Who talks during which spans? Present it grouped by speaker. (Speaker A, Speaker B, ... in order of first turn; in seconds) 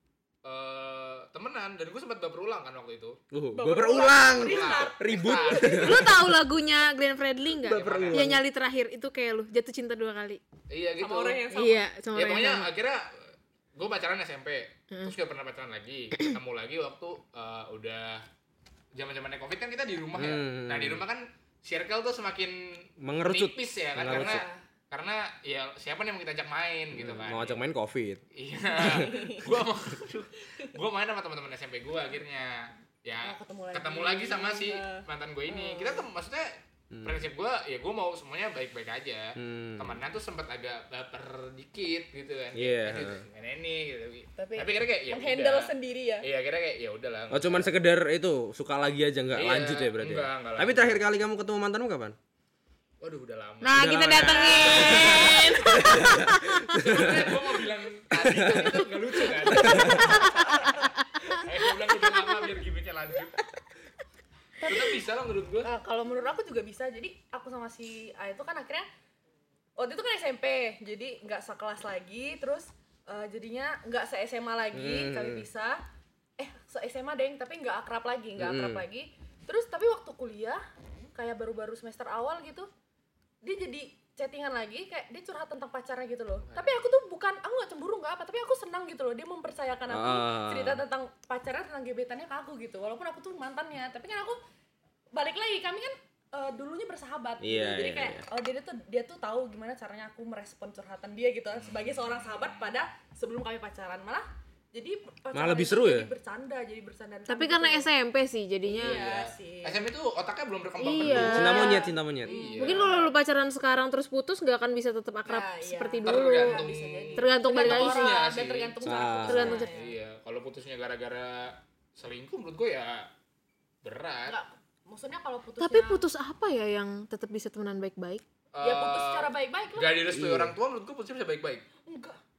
Speaker A: 0.4-3.2, 4.3-6.0, 7.6-8.3, 10.7-11.5, 12.1-18.2, 18.9-27.6, 28.3-36.5, 37.0-47.7, 49.4-51.0, 53.0-55.6, 56.7-60.8, 61.3-63.4, 64.7-65.7, 86.4-86.8, 108.7-112.9, 116.0-118.8, 119.6-123.1, 123.8-124.4, 128.5-131.6
Speaker B: 3.3-6.3, 7.6-8.4, 20.1-21.0, 23.0-24.5, 26.9-28.2, 36.9-37.2, 39.4-40.0, 42.5-43.2, 47.3-52.1, 53.7-57.5, 58.1-58.9, 59.5-60.2, 74.7-75.5, 78.4-78.8, 89.9-90.8, 97.4-98.2, 105.3-106.1, 111.0-112.3, 118.8-119.6, 130.1-130.6
Speaker C: 3.5-5.9, 11.0-11.8, 24.1-24.6, 28.8-29.5, 33.2-36.1, 44.4-46.2, 60.2-60.5, 64.6-64.9, 65.6-68.9, 69.8-75.8, 76.4-80.6, 81.1-82.7, 83.4-94.4, 95.1-107.9, 108.6-109.8, 110.9-113.1, 115.2-119.9, 124.3-126.0, 128.6-129.9, 131.8-132.2
Speaker D: 5.8-10.4, 11.5-12.7, 53.6-57.0, 107.3-109.0, 110.8-111.9, 112.6-118.1, 119.2-119.7, 125.6-128.2